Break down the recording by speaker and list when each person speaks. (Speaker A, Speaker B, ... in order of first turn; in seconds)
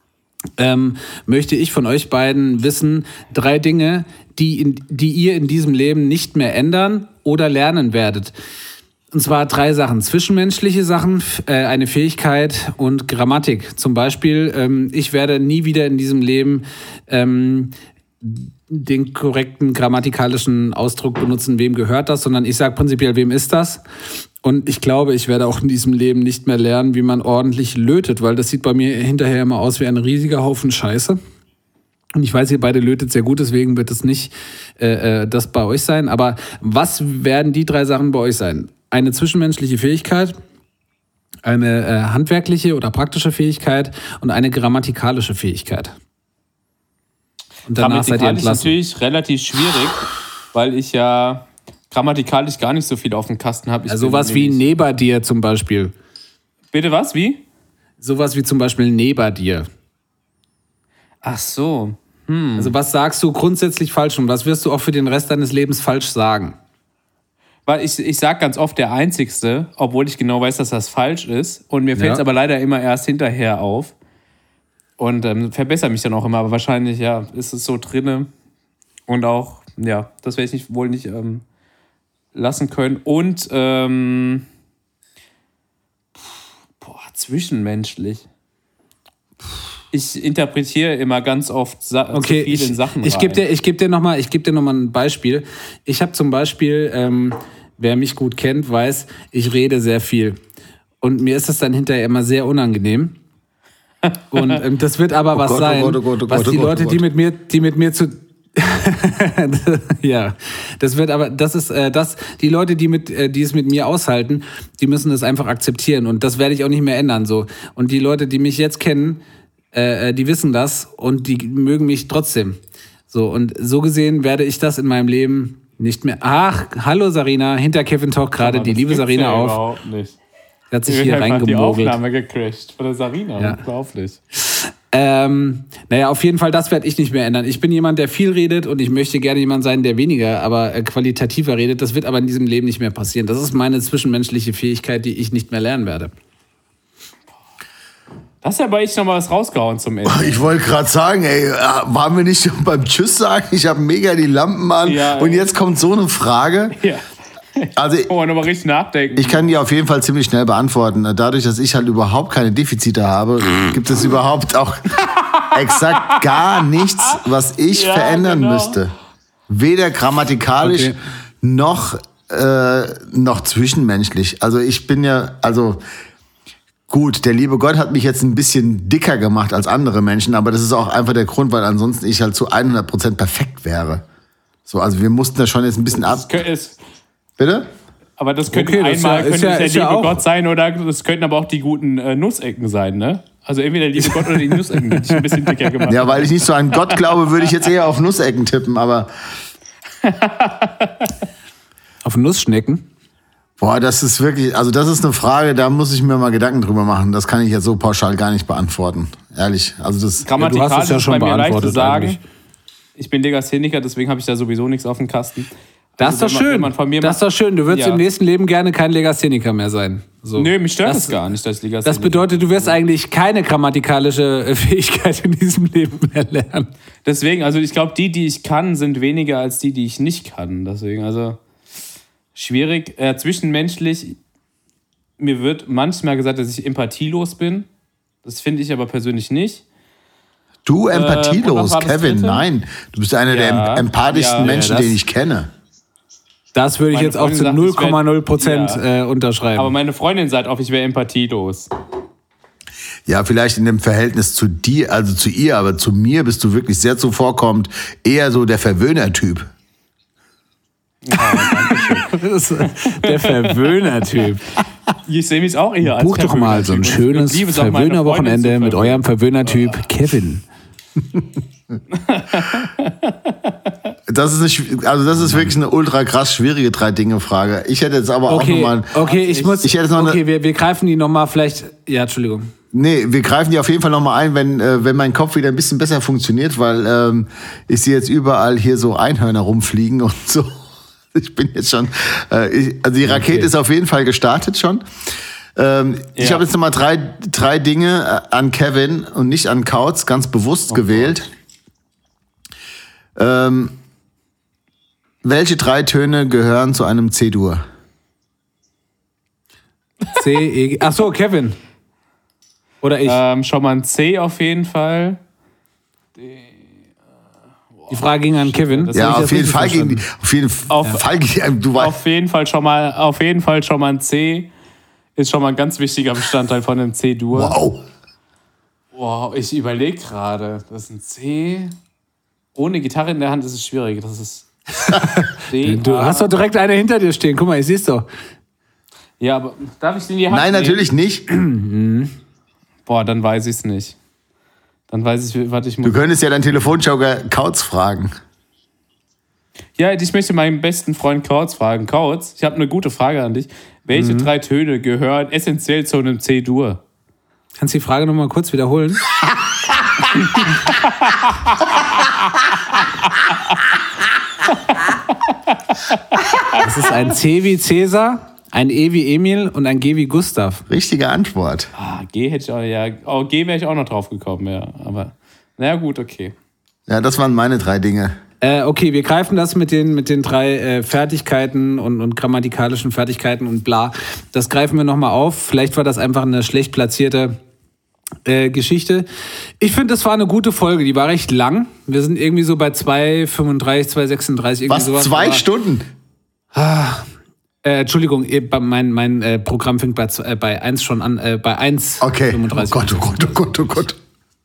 Speaker A: 0.6-8.3, 9.1-23.8, 24.4-31.2, 32.2-40.4, 41.5-46.0, 47.7-48.7, 53.9-55.9, 58.0-59.7, 62.6-66.6, 72.0-72.2, 92.1-100.4, 101.0-103.2, 104.3-119.2, 119.7-122.6, 123.1-129.6, 130.7-132.0, 134.4-146.1, 170.6-171.0, 188.5-190.2, 194.0-195.9, 202.1-202.8, 210.4-212.2, 216.0-221.2, 221.8-226.7, 244.4-244.9, 246.5-249.7, 261.7-264.4, 266.0-270.4, 278.3-282.5, 293.1-293.5, 310.1-311.6, 312.8-313.2, 317.9-320.0, 335.0-338.1, 341.3-342.1, 353.9-354.3, 357.6-359.0, 366.6-370.6, 378.4-387.4, 388.2-389.1, 389.6-395.4, 396.5-397.1, 397.6-403.5
Speaker B: 47.8-54.6, 56.7-57.4, 61.2-62.8, 67.7-73.9, 75.0-78.3, 79.1-81.4, 82.3-84.5, 86.8-88.2, 89.9-93.4, 128.4-130.2, 130.9-134.2, 148.4-150.4, 154.8-155.5, 156.8-157.0, 157.6-159.5, 165.8-166.2, 167.7-168.8, 185.9-186.8, 188.2-196.3, 200.0-201.1, 210.2-212.2, 213.0-218.0, 220.4-222.8, 227.1-231.4, 232.3-234.2, 235.2-237.7, 238.2-239.6, 240.9-242.5, 243.3-244.9, 246.9-248.8, 249.6-251.7, 261.0-263.6, 265.1-269.6, 271.9-273.5, 279.0-279.6, 296.2-296.4, 300.7-301.1, 313.1-315.2, 316.2-316.6, 317.8-319.4, 320.7-321.1, 321.8-324.5, 325.2-327.6, 328.9-331.7, 332.6-336.4, 339.2-340.9, 342.9-343.9, 344.9-346.0, 349.8-356.8, 360.7-362.1, 364.5-365.0, 365.9-366.6, 371.8-376.3
Speaker C: 105.3-107.1, 150.1-156.8, 157.8-158.1, 159.1-168.9, 169.5-175.8, 176.9-184.0, 184.7-186.4, 187.4-187.7, 195.9-199.1, 203.6-210.3, 240.7-245.5, 253.1-259.5, 274.1-278.9, 279.6-280.2, 282.7-290.6, 291.1-294.8, 295.6-301.3, 303.2-303.8, 305.2-307.6, 318.9-322.0, 327.3-327.8, 340.3-341.2, 345.8-348.1, 370.7-371.7, 376.9-378.2, 394.7-395.9, 402.0-404.0